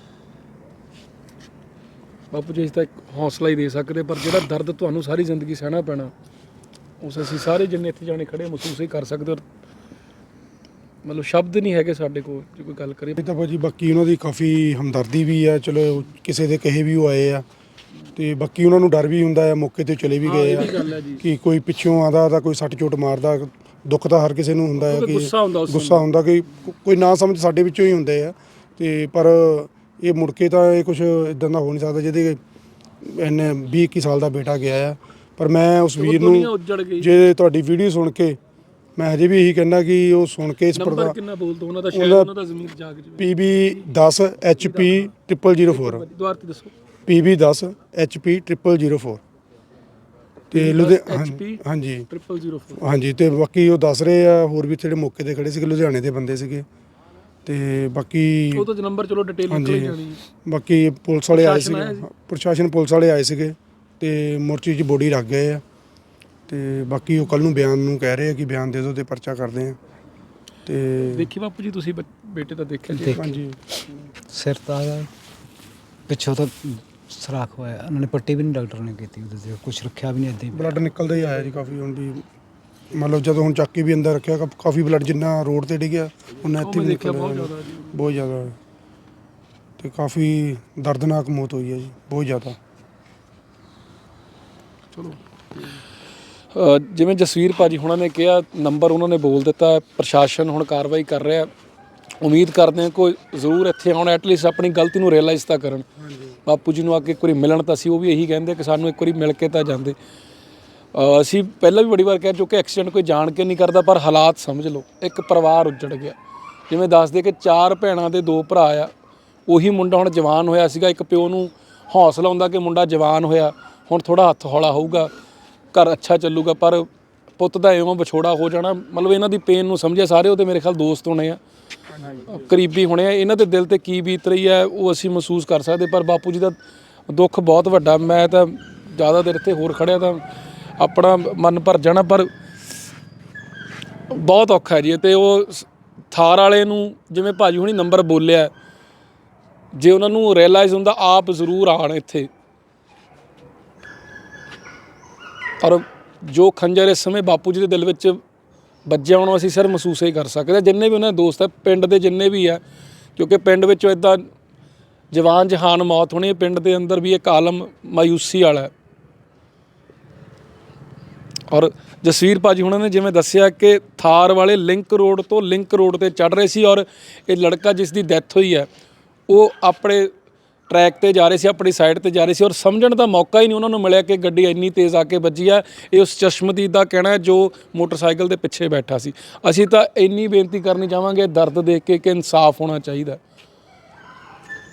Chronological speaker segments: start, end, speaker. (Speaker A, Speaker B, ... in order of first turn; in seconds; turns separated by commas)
Speaker A: 2.3-6.1, Speaker A: 7.0-9.4, Speaker A: 11.0-13.2, Speaker B: 13.2-17.4, Speaker B: 18.1-32.4, Speaker A: 20.2-21.3, Speaker A: 24.8-26.1, Speaker B: 33.0-38.4, Speaker A: 36.0-37.1, Speaker B: 39.0-41.1, Speaker A: 40.7-43.3, Speaker B: 41.9-42.3, Speaker B: 43.2-46.0, Speaker A: 44.6-45.0, Speaker A: 45.7-46.7, Speaker B: 47.1-49.2, Speaker B: 50.5-52.1, Speaker A: 50.5-52.8, Speaker B: 52.8-56.6, Speaker B: 57.5-58.6, Speaker A: 58.5-60.2, Speaker B: 59.5-65.6, Speaker A: 61.3-62.1, Speaker B: 66.5-69.8, Speaker B: 70.7-71.3, Speaker A: 71.1-73.4, Speaker C: 72.9-73.2, Speaker B: 73.1-73.6, Speaker C: 74.3-75.1, Speaker C: 76.1-80.7, Speaker B: 80.5-82.2, Speaker B: 82.9-88.6, Speaker A: 86.6-87.9, Speaker B: 89.8-92.6, Speaker A: 94.9-95.8, Speaker A: 96.5-101.5, Speaker A: 102.2-105.8, Speaker B: 106.0-106.4, Speaker A: 106.4-110.0, Speaker A: 110.9-116.2, Speaker A: 116.7-118.9, Speaker A: 119.5-125.1, Speaker A: 125.7-131.4, Speaker A: 132.1-136.6, Speaker A: 137.1-140.2, Speaker A: 140.8-142.3, Speaker A: 144.1-148.5, Speaker A: 149.7-152.3, Speaker A: 155.6-158.2, Speaker A: 158.8-162.6, Speaker A: 163.2-164.3, Speaker A: 165.1-168.7, Speaker A: 171.5-178.7, Speaker A: 179.3-180.1, Speaker A: 180.7-193.2